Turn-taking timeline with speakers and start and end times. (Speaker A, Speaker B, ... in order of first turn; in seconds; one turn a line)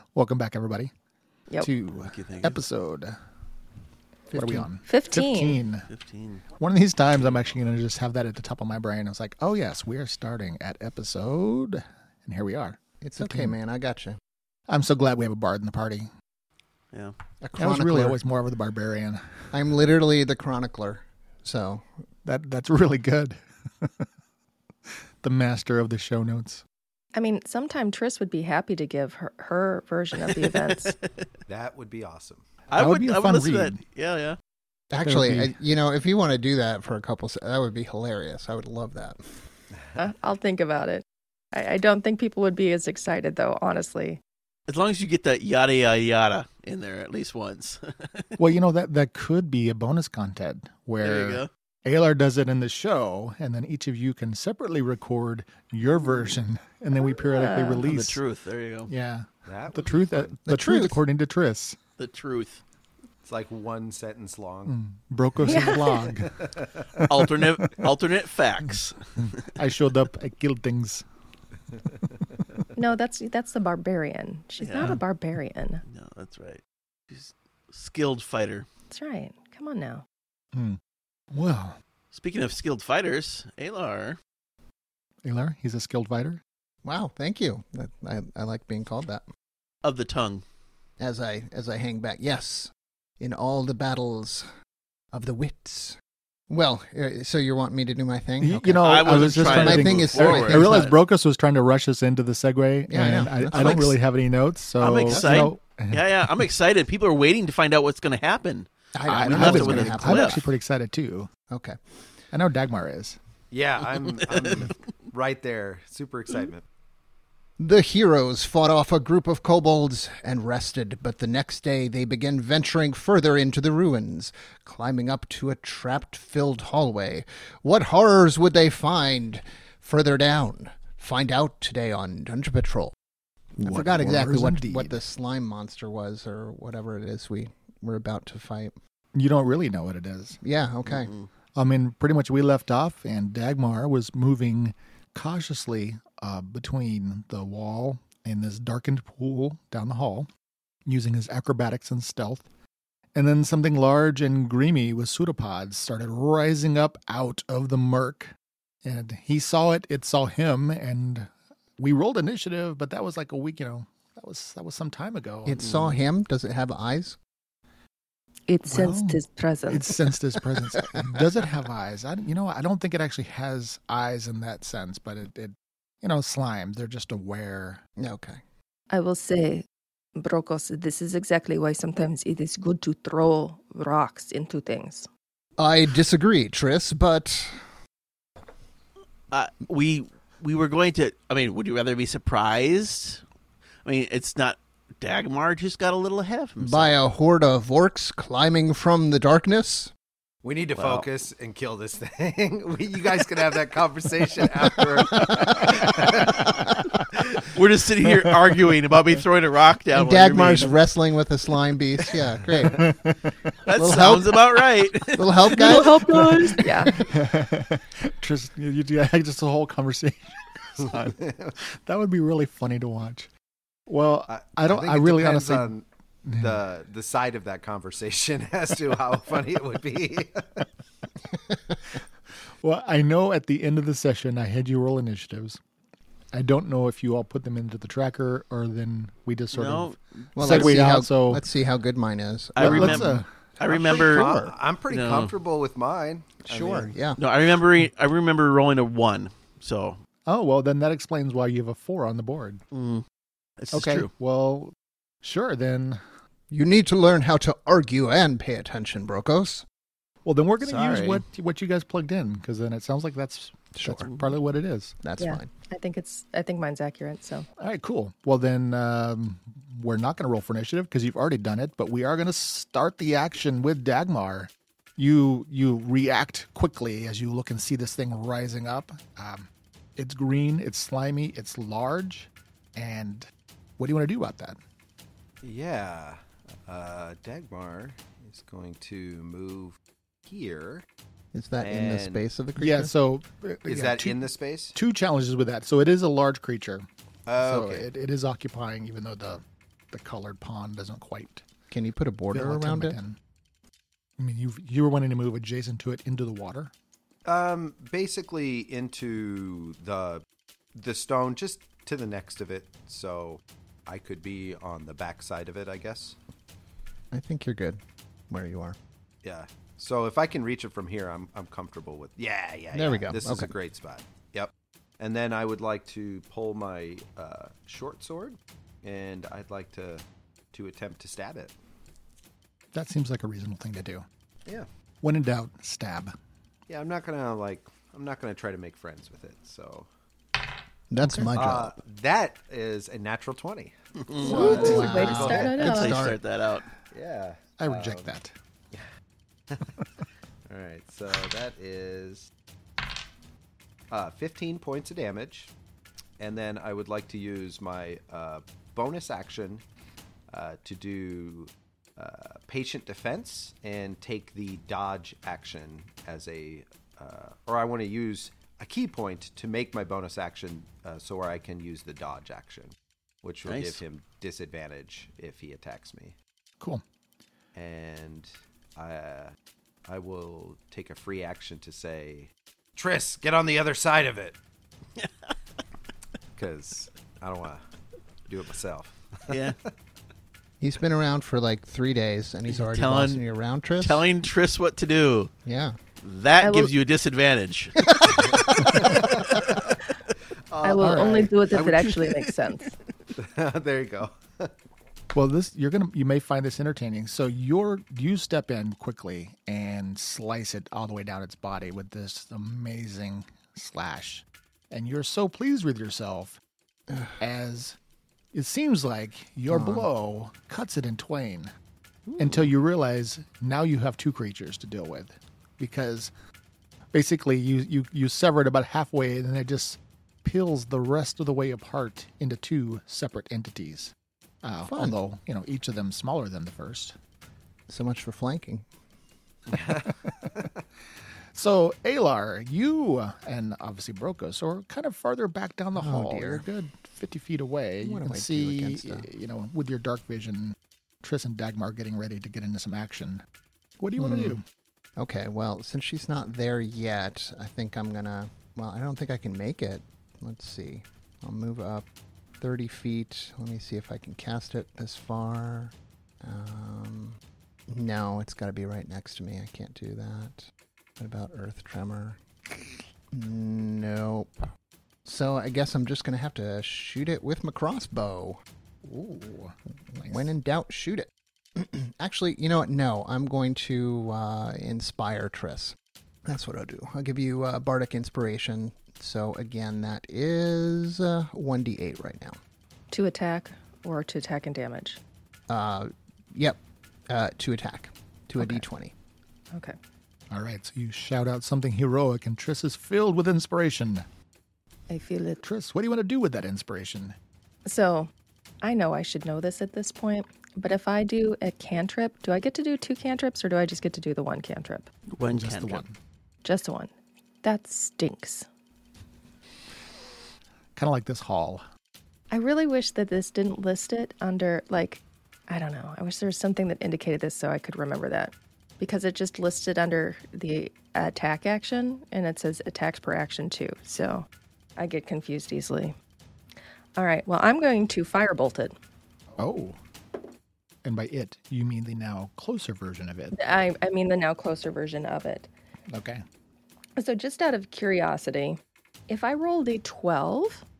Speaker A: 0.1-0.9
Speaker A: 1.6-3.2
Speaker B: 1.9-2.6
Speaker C: 4.3-4.7
Speaker A: 4.3-5.9
Speaker D: 4.8-5.6
Speaker B: 5.9-6.4
Speaker A: 6.6-13.6
Speaker C: 13.0-14.2
Speaker A: 14.7-16.1
Speaker C: 17.4-18.2
Speaker A: 17.6-19.5
Speaker C: 19.5-21.9
Speaker A: 22.2-24.1
Speaker A: 24.9-26.6
Speaker D: 27.1-30.9
Speaker B: 30.4-31.2
Speaker E: 31.5-32.5
Speaker B: 32.7-34.4
Speaker A: 32.8-33.8
Speaker C: 34.9-39.2
Speaker A: 35.0-35.5
Speaker D: 40.0-44.2
Speaker B: 44.7-48.4
Speaker A: 48.4-58.2
Speaker B: 51.0-51.5
Speaker D: 57.3-57.8
Speaker B: 57.8-58.9
Speaker A: 58.9-61.8
Speaker E: 59.5-60.4
Speaker C: 60.5-61.0
Speaker B: 62.0-62.6
Speaker E: 63.2-64.8
Speaker A: 64.7-66.4
Speaker D: 65.4-66.1
Speaker E: 66.2-67.0
Speaker B: 67.0-69.4
Speaker A: 67.2-67.9
Speaker A: 69.2-71.0
Speaker D: 72.8-75.8
Speaker B: 74.6-75.0
Speaker B: 75.8-78.7
Speaker D: 78.9-80.0
Speaker A: 80.5-80.8
Speaker A: 81.3-81.8
Speaker B: 82.1-84.2
Speaker A: 85.2-86.4
Speaker C: 86.8-89.2
Speaker B: 89.8-90.4
Speaker C: 91.0-94.5
Speaker C: 95.1-96.0
Speaker C: 96.5-100.9
Speaker A: 98.4-106.5
Speaker B: 98.8-100.9
Speaker C: 102.9-104.0
Speaker B: 103.5-103.8
Speaker B: 104.8-108.7
Speaker C: 105.1-105.5
Speaker C: 108.9-110.4
Speaker A: 109.1-111.3
Speaker B: 109.2-110.4
Speaker C: 111.5-111.8
Speaker A: 112.3-113.2
Speaker E: 113.5-116.6
Speaker C: 117.6-132.9
Speaker C: 133.6-138.7
Speaker A: 133.6-135.0
Speaker A: 139.1-140.4
Speaker C: 140.4-141.1
Speaker B: 140.9-141.2
Speaker A: 141.5-150.3
Speaker A: 150.8-152.4
Speaker A: 153.1-158.3
Speaker A: 158.8-165.6
Speaker C: 165.4-167.2
Speaker B: 165.6-166.0
Speaker D: 168.5-169.9
Speaker A: 168.7-177.8
Speaker C: 170.7-171.2
Speaker C: 178.0-178.4
Speaker D: 178.9-185.1
Speaker C: 185.6-187.6
Speaker B: 189.3-193.2
Speaker B: 193.8-196.9
Speaker C: 196.6-199.9
Speaker E: 200.4-206.4
Speaker B: 200.8-201.1
Speaker C: 205.0-206.1
Speaker B: 207.1-210.8
Speaker C: 209.9-212.8
Speaker A: 212.6-213.5
Speaker B: 213.7-216.7
Speaker C: 213.8-214.6
Speaker C: 215.1-216.0
Speaker D: 215.5-217.1
Speaker A: 215.7-223.3
Speaker E: 221.1-221.5
Speaker A: 223.9-225.7
Speaker E: 224.3-225.8
Speaker A: 226.2-226.6
Speaker E: 226.4-230.7
Speaker C: 231.3-231.8
Speaker A: 232.6-235.6
Speaker A: 236.3-241.4
Speaker B: 239.5-240.8
Speaker C: 240.3-244.6
Speaker B: 242.6-244.3
Speaker A: 242.6-243.3
Speaker E: 243.6-246.9
Speaker B: 244.9-245.3
Speaker C: 246.4-247.2
Speaker B: 247.2-250.0
Speaker A: 250.2-252.6
Speaker B: 252.7-253.0
Speaker B: 253.6-254.1
Speaker A: 253.7-256.0
Speaker C: 256.5-259.6
Speaker A: 260.2-264.9
Speaker B: 260.6-261.2
Speaker C: 263.7-264.1
Speaker C: 265.0-265.5
Speaker D: 265.2-267.5
Speaker A: 267.6-284.6
Speaker E: 285.4-290.9
Speaker C: 291.3-292.9
Speaker E: 291.6-292.2
Speaker A: 292.6-294.2
Speaker E: 293.6-294.8
Speaker A: 294.7-296.9
Speaker E: 297.3-297.9
Speaker A: 297.4-301.4
Speaker C: 301.7-302.9
Speaker A: 302.3-303.2
Speaker A: 304.2-306.7
Speaker E: 307.2-310.2
Speaker E: 310.7-316.2
Speaker C: 317.1-318.8
Speaker E: 319.2-331.5
Speaker C: 322.7-323.5
Speaker A: 332.7-334.0
Speaker A: 335.0-336.1
Speaker E: 336.7-339.9
Speaker C: 340.9-341.7
Speaker A: 341.0-341.7
Speaker E: 341.3-345.6
Speaker B: 344.0-346.7
Speaker D: 344.2-346.0
Speaker C: 344.2-346.2
Speaker A: 344.6-345.0
Speaker E: 346.9-348.1
Speaker A: 347.6-348.3
Speaker E: 350.5-352.3
Speaker E: 353.9-355.5
Speaker E: 356.2-359.6
Speaker E: 360.3-376.1
Speaker B: 373.4-373.8
Speaker E: 377.5-379.3
Speaker E: 379.8-384.4
Speaker B: 385.0-385.3
Speaker E: 386.4-387.6
Speaker E: 388.3-389.5
Speaker B: 389.3-389.6
Speaker C: 390.6-394.0
Speaker B: 392.5-393.2
Speaker B: 393.8-395.3
Speaker C: 395.4-395.8
Speaker B: 396.0-399.1
Speaker D: 396.4-396.7
Speaker C: 397.9-398.8
Speaker E: 398.2-399.4
Speaker E: 400.5-401.4
Speaker D: 400.6-402.7
Speaker A: 400.8-401.2
Speaker B: 401.5-402.1
Speaker E: 403.2-404.5
Speaker A: 405.1-416.4
Speaker C: 416.9-417.2
Speaker A: 417.2-417.8
Speaker A: 418.3-421.5
Speaker C: 419.5-419.9
Speaker E: 422.1-422.5
Speaker A: 422.2-426.1
Speaker A: 426.9-436.9
Speaker C: 434.7-434.9
Speaker C: 437.7-438.6
Speaker E: 439.5-440.6
Speaker A: 441.3-453.2
Speaker C: 445.8-446.4
Speaker C: 447.8-449.1
Speaker A: 453.8-454.4
Speaker C: 454.0-454.4
Speaker C: 455.0-461.9
Speaker C: 462.4-472.2
Speaker C: 473.1-474.3
Speaker C: 475.0-478.4
Speaker A: 478.8-480.3
Speaker C: 479.9-492.4
Speaker D: 492.9-495.0
Speaker C: 495.5-496.6
Speaker C: 497.1-498.9
Speaker D: 499.5-499.8
Speaker A: 500.3-504.1
Speaker D: 504.9-505.4
Speaker A: 505.4-507.1
Speaker D: 507.6-508.1
Speaker D: 508.6-514.9
Speaker B: 515.1-515.8
Speaker A: 515.3-516.0
Speaker D: 516.4-516.9
Speaker D: 517.4-518.5
Speaker A: 520.8-521.6
Speaker D: 522.3-535.9
Speaker D: 537.0-538.7
Speaker A: 539.4-539.8
Speaker A: 540.8-543.3
Speaker D: 543.3-545.5
Speaker A: 545.9-546.2
Speaker D: 547.0-550.6